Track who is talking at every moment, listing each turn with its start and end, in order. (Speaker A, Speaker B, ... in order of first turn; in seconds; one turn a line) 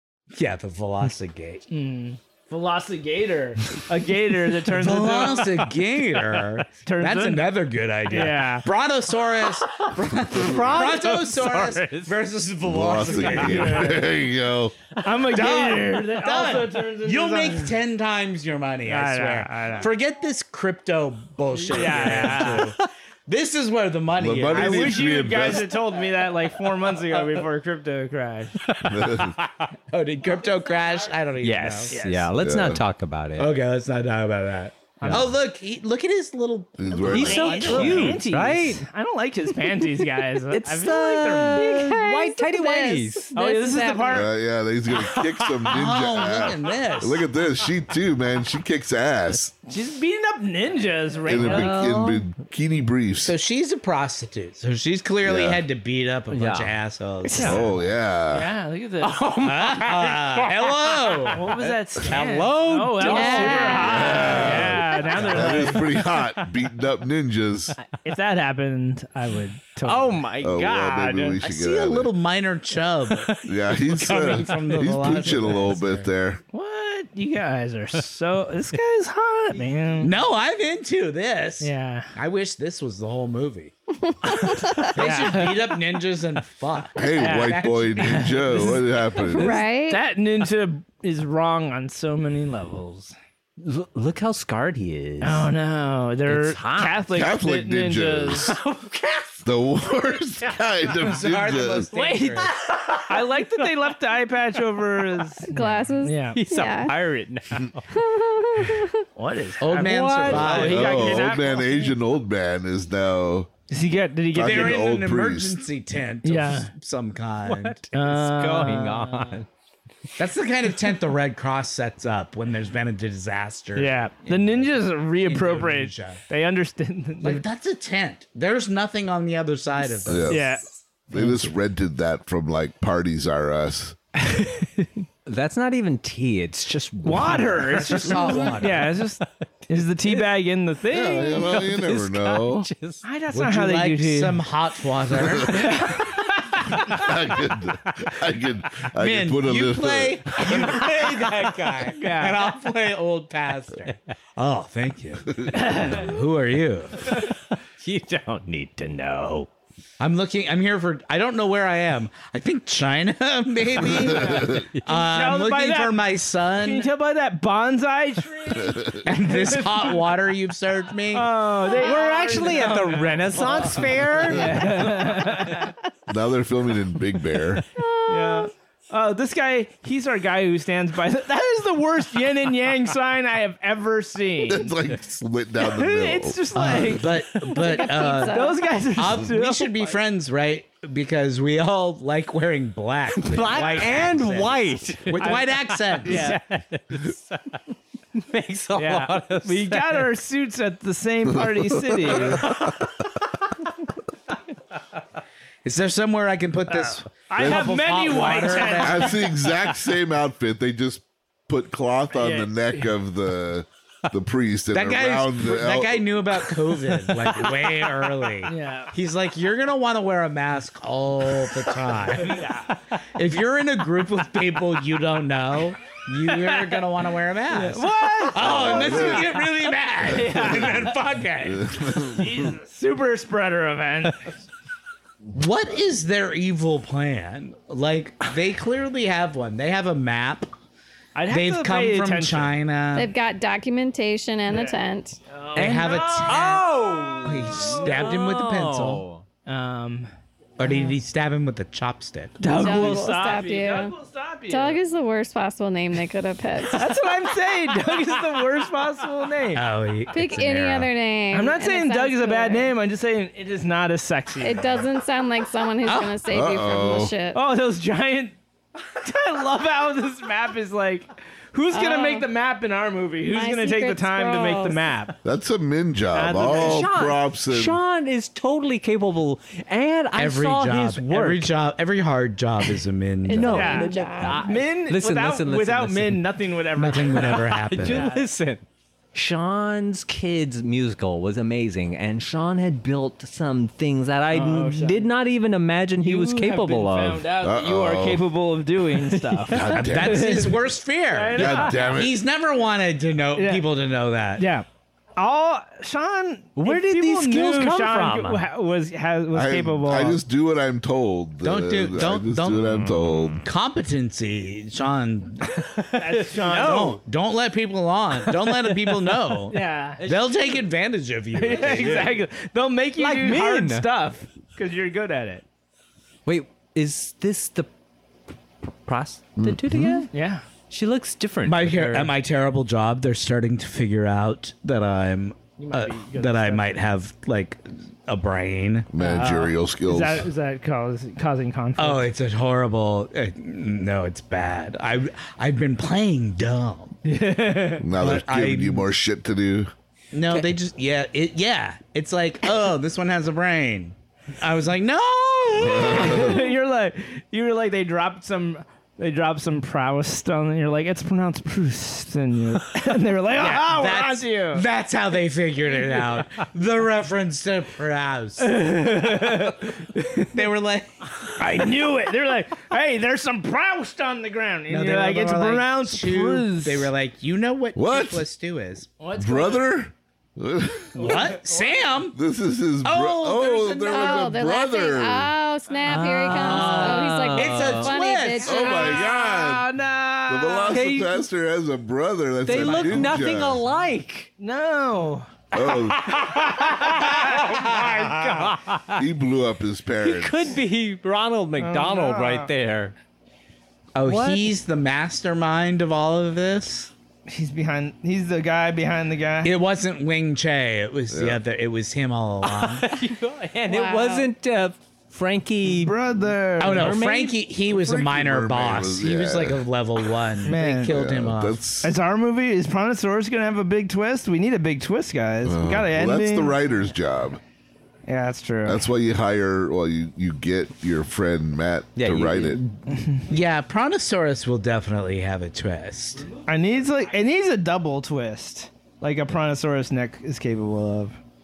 Speaker A: 0.3-1.6
Speaker B: 1.7-5.6
Speaker A: 4.7-14.1
Speaker C: 5.4-6.5
Speaker B: 6.8-7.6
Speaker B: 8.1-8.7
Speaker C: 9.7-12.2
Speaker D: 12.6-14.8
Speaker C: 13.2-13.7
Speaker B: 13.3-14.0
Speaker B: 15.0-17.8
Speaker A: 15.2-25.1
Speaker B: 18.9-19.9
Speaker B: 21.7-22.7
Speaker C: 21.7-22.9
Speaker D: 24.2-25.8
Speaker B: 24.5-28.6
Speaker C: 28.6-29.7
Speaker D: 28.9-29.4
Speaker A: 29.9-32.0
Speaker C: 31.4-33.5
Speaker B: 31.9-32.3
Speaker D: 32.4-32.8
Speaker A: 33.4-38.2
Speaker B: 35.0-35.3
Speaker D: 36.8-38.0
Speaker B: 37.0-41.8
Speaker C: 37.0-38.8
Speaker C: 40.5-43.3
Speaker E: 41.5-44.3
Speaker B: 43.4-44.3
Speaker D: 44.1-49.5
Speaker C: 44.9-45.7
Speaker A: 45.7-47.2
Speaker B: 49.7-51.9
Speaker D: 51.2-53.3
Speaker C: 51.3-52.3
Speaker A: 53.2-57.7
Speaker D: 55.2-55.6
Speaker C: 56.3-56.7
Speaker D: 57.4-58.5
Speaker B: 58.3-59.2
Speaker C: 59.0-66.3
Speaker A: 59.4-61.5
Speaker B: 61.3-66.0
Speaker E: 63.0-64.4
Speaker A: 63.2-63.8
Speaker D: 63.8-67.8
Speaker B: 68.0-70.3
Speaker C: 69.8-71.4
Speaker D: 70.4-72.1
Speaker A: 71.4-76.1
Speaker C: 73.1-73.5
Speaker D: 73.5-76.4
Speaker C: 74.1-74.9
Speaker B: 76.5-80.1
Speaker A: 80.0-83.7
Speaker B: 81.6-82.1
Speaker E: 84.0-85.0
Speaker B: 84.8-85.6
Speaker A: 84.9-88.8
Speaker D: 87.0-89.6
Speaker B: 87.2-88.8
Speaker E: 89.3-90.0
Speaker B: 89.4-93.2
Speaker C: 93.6-95.5
Speaker B: 95.2-98.6
Speaker C: 96.3-97.0
Speaker D: 97.1-98.6
Speaker C: 98.4-99.4
Speaker D: 99.5-101.9
Speaker A: 101.0-102.5
Speaker B: 101.9-102.5
Speaker C: 102.4-103.9
Speaker B: 103.1-106.4
Speaker E: 105.5-107.0
Speaker C: 106.3-107.9
Speaker E: 107.9-109.0
Speaker B: 109.2-111.9
Speaker A: 109.6-111.3
Speaker C: 109.8-110.7
Speaker D: 110.3-113.5
Speaker B: 113.7-114.9
Speaker D: 114.3-115.6
Speaker A: 114.4-117.8
Speaker B: 116.2-116.7
Speaker C: 117.4-119.5
Speaker B: 117.9-119.4
Speaker A: 120.2-126.2
Speaker B: 123.8-127.4
Speaker A: 127.2-130.5
Speaker D: 130.1-130.5
Speaker B: 130.2-131.5
Speaker D: 131.1-134.0
Speaker B: 134.2-135.0
Speaker C: 135.3-139.3
Speaker B: 137.0-141.5
Speaker A: 137.6-138.9
Speaker D: 140.9-142.7
Speaker C: 141.2-143.0
Speaker B: 143.0-144.4
Speaker A: 143.3-145.8
Speaker B: 145.5-147.0
Speaker D: 146.8-150.8
Speaker C: 146.8-147.1
Speaker A: 149.0-157.2
Speaker C: 150.4-151.9
Speaker B: 152.0-152.4
Speaker D: 155.3-155.7
Speaker B: 155.5-156.2
Speaker C: 157.1-159.5
Speaker A: 160.0-166.9
Speaker D: 163.9-164.7
Speaker B: 164.9-170.1
Speaker D: 168.5-169.0
Speaker A: 169.0-171.3
Speaker B: 171.1-175.7
Speaker C: 171.8-175.4
Speaker E: 171.8-172.4
Speaker A: 173.5-173.9
Speaker D: 176.1-177.6
Speaker E: 177.8-178.5
Speaker B: 178.1-184.8
Speaker D: 184.5-187.0
Speaker B: 185.6-187.2
Speaker A: 186.6-196.4
Speaker E: 187.6-188.7
Speaker B: 187.8-190.0
Speaker C: 193.1-197.6
Speaker B: 195.2-195.5
Speaker B: 196.0-196.4
Speaker C: 198.2-200.1
Speaker B: 198.8-202.5
Speaker D: 201.3-202.9
Speaker C: 202.2-202.9
Speaker A: 205.6-209.2
Speaker B: 206.7-209.5
Speaker D: 208.8-216.2
Speaker B: 212.2-212.9
Speaker A: 214.7-222.6
Speaker C: 216.4-218.3
Speaker B: 218.4-218.9
Speaker C: 221.3-221.8
Speaker B: 222.2-222.7
Speaker A: 223.1-231.8
Speaker B: 226.3-226.8
Speaker B: 227.5-229.2
Speaker C: 228.1-229.2
Speaker D: 228.4-229.4
Speaker B: 230.0-230.9
Speaker D: 231.4-232.5
Speaker B: 232.0-234.3
Speaker A: 235.3-240.5
Speaker B: 241.2-242.6
Speaker A: 241.3-243.1
Speaker E: 242.9-245.2
Speaker B: 244.5-244.8
Speaker B: 245.3-246.4
Speaker A: 245.6-249.0
Speaker C: 245.6-249.2
Speaker B: 247.4-248.1
Speaker B: 249.5-250.1
Speaker A: 250.6-252.8
Speaker B: 250.6-250.9
Speaker B: 252.4-254.8
Speaker E: 252.5-253.9
Speaker E: 254.5-256.9
Speaker B: 256.7-259.7
Speaker A: 259.5-260.9
Speaker E: 260.1-262.7
Speaker B: 261.3-264.9
Speaker E: 264.4-267.4
Speaker A: 265.8-266.2
Speaker D: 266.3-267.1
Speaker B: 267.3-268.4
Speaker B: 268.9-275.2
Speaker E: 271.7-272.3
Speaker E: 273.3-274.8
Speaker D: 275.2-277.8
Speaker B: 276.1-276.9
Speaker C: 276.5-281.5
Speaker A: 280.1-283.8
Speaker C: 282.6-286.3
Speaker E: 283.3-284.4
Speaker B: 283.5-288.3
Speaker A: 286.8-288.1
Speaker C: 287.1-288.6
Speaker C: 289.1-297.3
Speaker B: 294.3-295.1
Speaker B: 296.0-302.0
Speaker D: 297.4-298.2
Speaker C: 299.1-299.9
Speaker D: 299.5-300.4
Speaker A: 299.7-304.5
Speaker D: 301.4-302.2
Speaker B: 303.4-303.7
Speaker B: 304.4-304.7
Speaker B: 305.2-310.2
Speaker C: 306.6-308.5
Speaker D: 309.3-313.4
Speaker A: 311.4-312.7
Speaker C: 312.6-313.4
Speaker A: 313.4-315.6
Speaker C: 315.6-317.0
Speaker B: 315.9-317.0
Speaker A: 316.5-322.1
Speaker C: 318.2-319.2
Speaker B: 319.5-320.4
Speaker B: 321.3-325.4
Speaker C: 321.5-322.1
Speaker C: 323.0-323.9
Speaker C: 326.3-327.7
Speaker C: 328.9-330.1
Speaker D: 329.4-330.1
Speaker B: 330.1-330.4
Speaker C: 330.7-332.1
Speaker A: 331.4-338.9
Speaker B: 335.6-336.8
Speaker D: 338.9-340.3
Speaker B: 339.0-342.1
Speaker A: 341.8-347.0
Speaker B: 347.0-347.9
Speaker D: 347.8-349.7
Speaker A: 348.0-348.9
Speaker A: 350.1-356.4
Speaker D: 355.6-356.4
Speaker B: 355.7-364.7
Speaker A: 363.4-368.6
Speaker B: 368.4-370.4
Speaker A: 370.3-371.7
Speaker B: 371.4-376.9
Speaker A: 374.7-378.9
Speaker D: 377.8-378.3
Speaker B: 379.0-379.6
Speaker D: 379.2-381.3
Speaker A: 380.9-382.2
Speaker B: 381.0-381.7
Speaker D: 382.1-385.3
Speaker A: 382.8-384.3
Speaker E: 383.9-388.8
Speaker C: 385.8-387.9
Speaker A: 386.3-389.0
Speaker B: 388.4-390.9
Speaker D: 388.4-389.7
Speaker D: 390.3-393.6
Speaker C: 390.7-391.2
Speaker C: 392.5-394.3
Speaker A: 392.5-393.0
Speaker B: 394.4-395.3
Speaker D: 395.5-396.4
Speaker C: 395.6-399.0
Speaker B: 396.7-397.9
Speaker A: 397.4-398.1
Speaker D: 398.9-400.5
Speaker C: 400.0-402.9
Speaker B: 401.6-402.5
Speaker A: 403.9-406.9
Speaker C: 404.0-404.5
Speaker B: 407.3-409.5
Speaker A: 409.4-412.9
Speaker D: 411.1-411.4
Speaker C: 412.4-415.9
Speaker E: 413.7-414.3
Speaker B: 415.6-416.9
Speaker A: 416.6-421.6
Speaker C: 416.6-417.9
Speaker D: 417.8-419.7
Speaker B: 420.5-420.9
Speaker D: 420.8-421.9
Speaker B: 421.8-426.6
Speaker D: 425.4-427.4
Speaker B: 428.1-428.8
Speaker D: 428.6-432.6
Speaker C: 432.0-432.8
Speaker B: 432.9-433.2
Speaker A: 433.3-436.3
Speaker B: 436.5-441.2